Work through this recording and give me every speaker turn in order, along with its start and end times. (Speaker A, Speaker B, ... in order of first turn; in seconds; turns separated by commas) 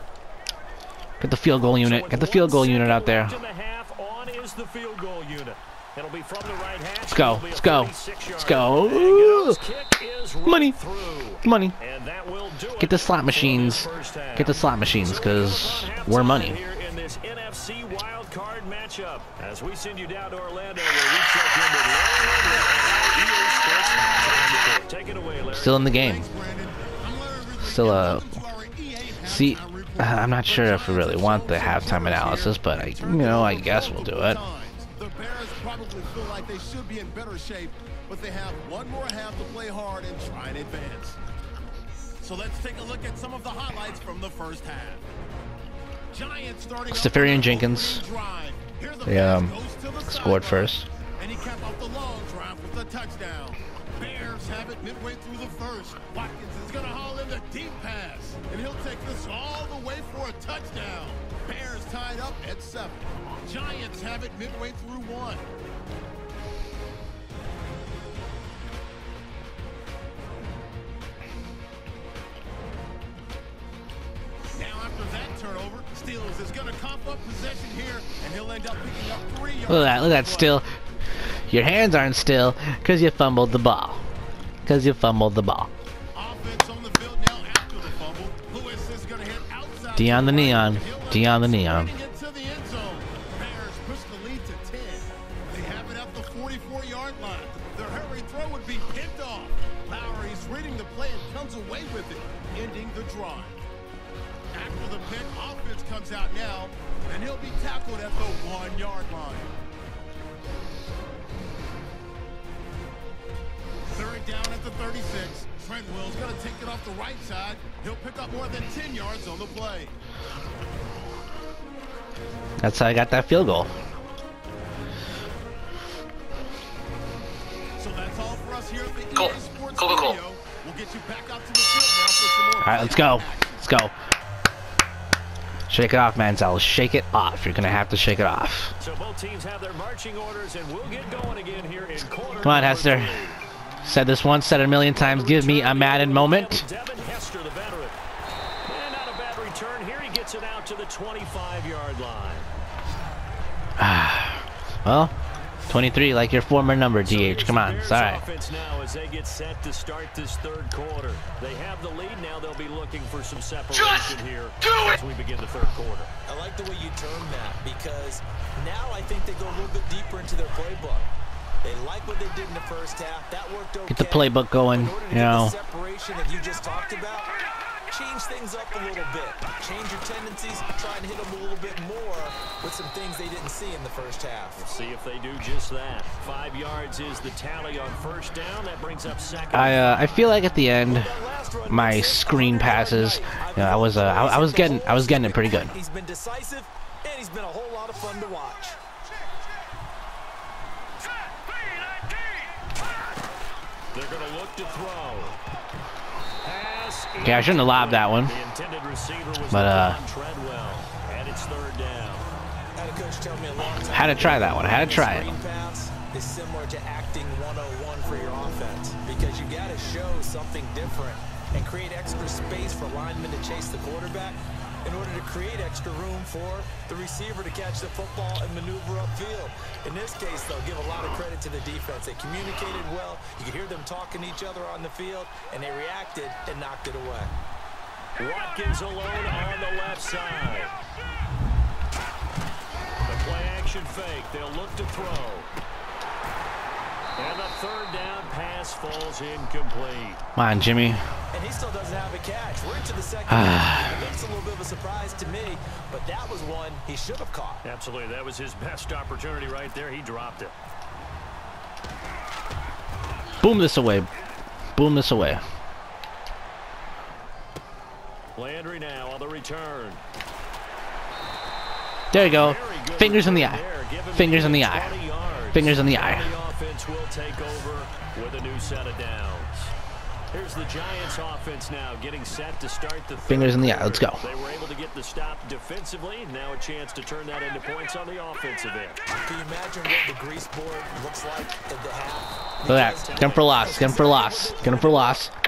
Speaker A: 1.2-3.4, Speaker B: 1.8-25.8, Speaker A: 7.1-9.6, Speaker A: 10.4-10.8, Speaker A: 11.4-11.8, Speaker A: 12.8-16.6, Speaker A: 25.5-26.3, Speaker C: 25.9-41.2, Speaker A: 27.6-28.3, Speaker A: 29.2-34.4, Speaker C: 42.2-45.0, Speaker D: 43.2-44.4, Speaker C: 46.1-65.5, Speaker A: 46.9-48.0, Speaker A: 49.1-49.5, Speaker A: 50.1-50.9, Speaker C: 74.5-80.6, Speaker A: 79.7-80.7, Speaker A: 81.5-84.0, Speaker A: 84.7-85.7, Speaker C: 86.2-103.6, Speaker A: 90.0-91.9, Speaker C: 104.5-109.6, Speaker C: 114.0-119.9, Speaker D: 116.1-116.6, Speaker D: 117.8-119.9, Speaker A: 122.6-123.7, Speaker D: 127.8-128.1, Speaker C: 127.8-133.6, Speaker D: 128.9-130.2, Speaker A: 132.6-133.9, Speaker A: 135.7-138.7, Speaker B: 138.8-143.4, Speaker A: 142.4-143.2, Speaker A: 143.8-146.7, Speaker B: 145.0-148.0, Speaker B: 148.7-152.5, Speaker A: 153.8-155.1, Speaker A: 155.7-158.2, Speaker B: 157.0-166.1, Speaker D: 166.3-171.1, Speaker D: 171.6-177.3, Speaker A: 173.9-175.6, Speaker D: 177.9-184.6, Speaker B: 184.6-190.2, Speaker A: 189.5-191.2, Speaker D: 190.9-198.8, Speaker A: 191.7-195.7, Speaker B: 203.9-205.4, Speaker B: 206.4-212.3, Speaker A: 207.2-208.3, Speaker A: 209.5-210.0, Speaker D: 212.8-237.3, Speaker A: 213.9-215.3, Speaker B: 238.2-240.7, Speaker B: 243.1-245.5, Speaker B: 247.2-250.2, Speaker A: 250.3-251.0, Speaker D: 251.3-257.6, Speaker A: 253.3-253.9, Speaker B: 257.6-260.6, Speaker A: 263.4-264.1, Speaker A: 264.8-265.4, Speaker B: 268.4-270.0, Speaker A: 272.1-275.0, Speaker B: 272.1-279.7, Speaker A: 275.5-276.3, Speaker B: 280.3-289.0, Speaker A: 283.3-284.2, Speaker D: 289.2-295.2, Speaker A: 292.7-295.3, Speaker B: 292.9-294.1